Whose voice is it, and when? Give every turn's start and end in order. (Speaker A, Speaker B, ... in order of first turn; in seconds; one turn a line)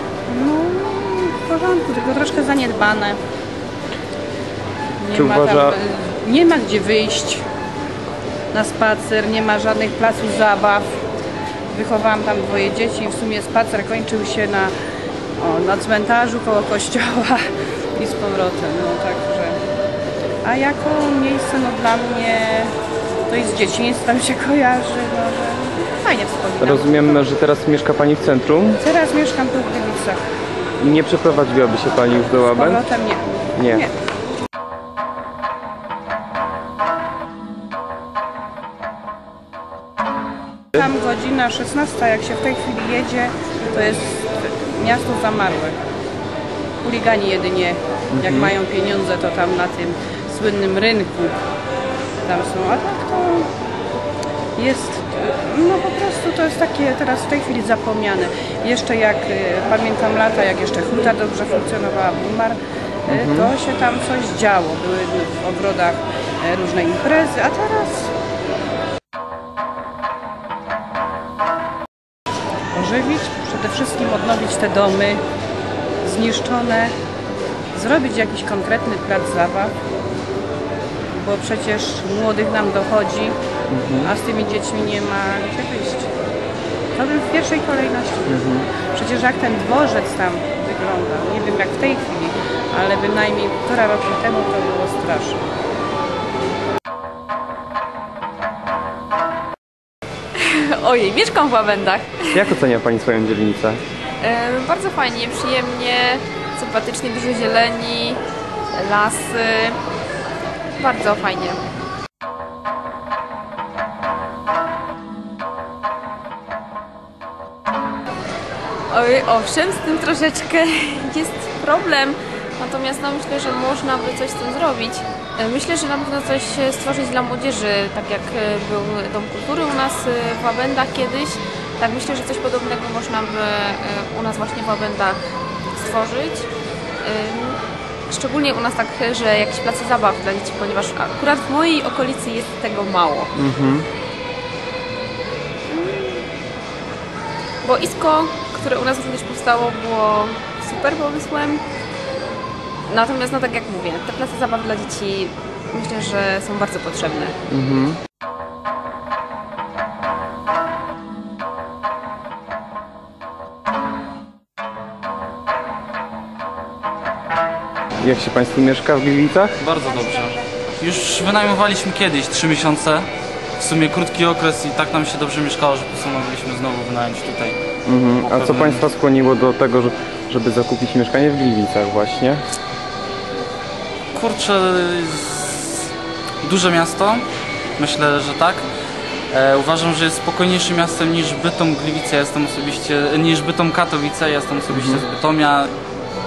Speaker A: 0.3-3.2
Speaker A: 5.0-7.4
Speaker B: 5.1-5.8
Speaker A: 8.5-11.0
Speaker A: 11.7-14.7
Speaker A: 15.4-17.4
Speaker A: 17.9-19.6
Speaker A: 20.4-22.7
Speaker A: 23.3-27.3
Speaker B: 26.6-28.8
Speaker A: 28.8-30.2
Speaker B: 30.8-32.8
Speaker A: 32.5-33.9
Speaker B: 33.5-33.9
Speaker A: 40.7-45.8
Speaker A: 46.8-51.4
Speaker B: 48.1-48.5
Speaker A: 52.2-53.5
Speaker A: 54.5-68.1
Speaker B: 63.1-63.5
Speaker A: 72.7-75.2
Speaker A: 76.0-76.9
Speaker A: 77.7-79.7
Speaker A: 81.1-83.3
Speaker B: 83.7-84.1
Speaker A: 84.0-86.1
Speaker A: 86.9-95.4
Speaker B: 88.3-88.7
Speaker C: 100.3-102.4
Speaker B: 102.3-103.8
Speaker C: 104.2-108.2
Speaker C: 108.7-109.8
Speaker C: 110.8-111.6
Speaker C: 118.9-135.2
Speaker C: 135.7-136.5
Speaker C: 137.0-143.3
Speaker B: 143.3-143.9
Speaker C: 145.7-146.2
Speaker C: 147.6-151.6
Speaker C: 152.9-157.3
Speaker B: 157.5-158.0
Speaker B: 168.0-169.6
Speaker D: 169.6-173.1
Speaker D: 173.6-177.6
Speaker B: 177.8-182.4
Speaker D: 178.2-178.8
Speaker D: 184.1-185.9
Speaker D: 186.4-187.2
Speaker D: 187.8-188.6
Speaker D: 189.3-195.7
Speaker B: 194.7-195.0